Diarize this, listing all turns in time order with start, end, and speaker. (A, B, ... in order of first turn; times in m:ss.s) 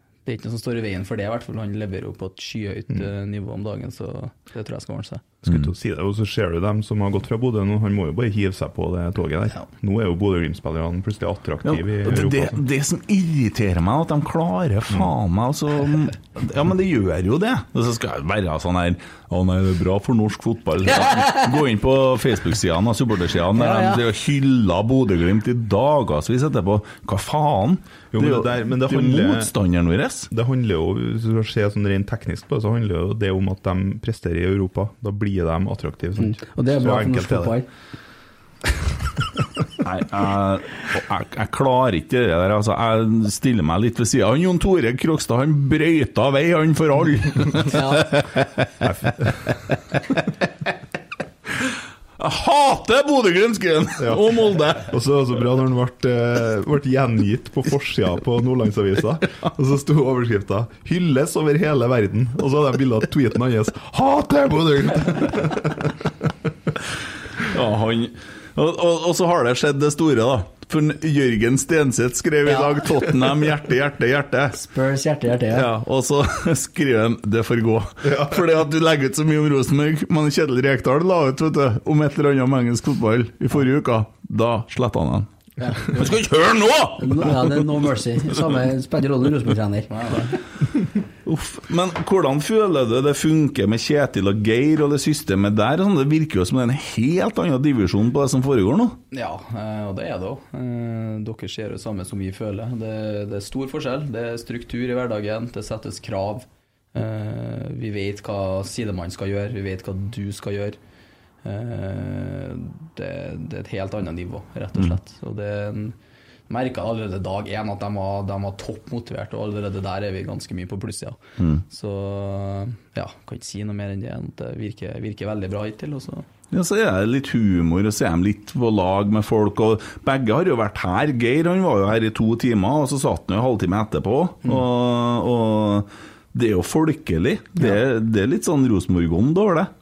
0:00.3-0:05.2 A
0:05.4-0:12.6 B
0:11.6-0:30.3 C
0:23.6-0:24.0 D
0:28.1-0:29.5 B
0:30.3-0:37.6 B
0:36.2-0:37.7 D
0:39.8-0:49.0 C
0:47.7-0:48.2 D
0:52.2-0:54.9 C
0:54.0-1:06.1 B
1:07.4-1:14.6 C
1:14.5-1:15.7 D
1:15.5-1:25.3 C
1:18.0-1:18.4 B
1:25.6-1:25.9 D
1:25.8-1:27.8 C
1:27.0-1:30.2 D
1:29.9-1:30.4 A
1:31.2-1:39.0 C
1:39.1-1:50.8 A
1:51.4-1:56.0 A
1:56.5-2:06.3 A
2:06.5-2:19.7 C